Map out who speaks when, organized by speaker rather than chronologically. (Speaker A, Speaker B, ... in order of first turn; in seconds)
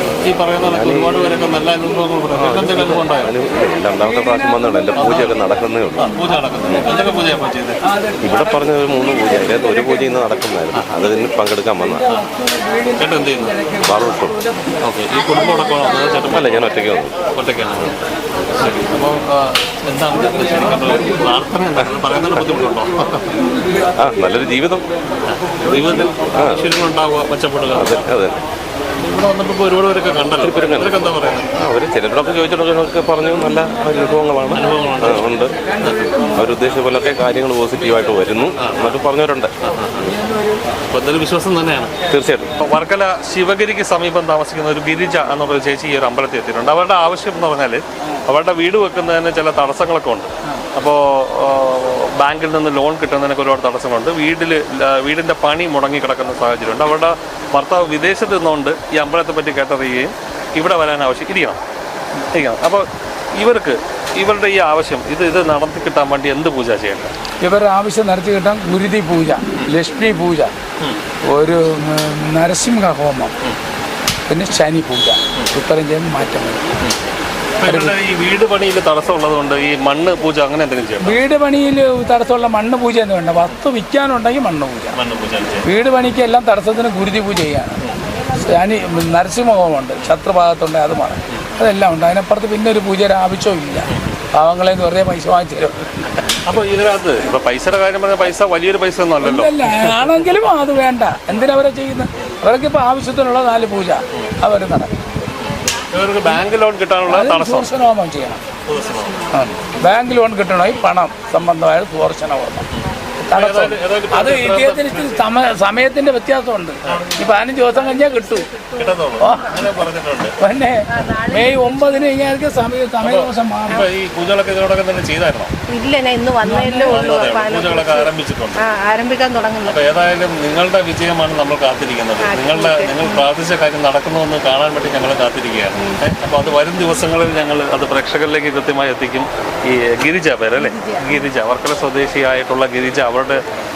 Speaker A: 0.3-3.3, 4.9-5.4, 6.0-7.8, 12.9-13.6, 14.8-16.7, 17.3-17.9, 18.6-23.3, 25.3-28.0, 29.0-31.4, 34.5-36.3, 38.6-39.0, 39.6-40.1, 40.9-41.9, 42.6-61.6, 62.3-62.8, 63.4-67.1, 77.6-81.2, 84.9-85.7, 96.5-100.0, 105.9-107.7, 108.7-109.2, 113.3-115.2, 118.8-120.3, 123.0-125.5, 126.9-128.6, 129.6-143.4
Speaker B: 0.7-1.3, 2.4-6.9, 8.2-12.0, 13.8-14.3, 16.3-17.1, 24.0-24.8, 26.4-26.7, 27.7-28.3, 30.4-35.5, 36.4-39.5, 42.1-42.5
Speaker C: 67.4-70.5, 71.3-73.3, 74.3-76.6, 77.7-78.0, 81.0-85.0, 85.6-87.8, 88.4-95.7, 99.2-104.9, 107.0-108.4, 109.3-112.7, 113.2-118.5, 119.2-119.7, 120.4-123.8, 126.5-127.1
Speaker D: 125.7-129.8, 132.2-133.2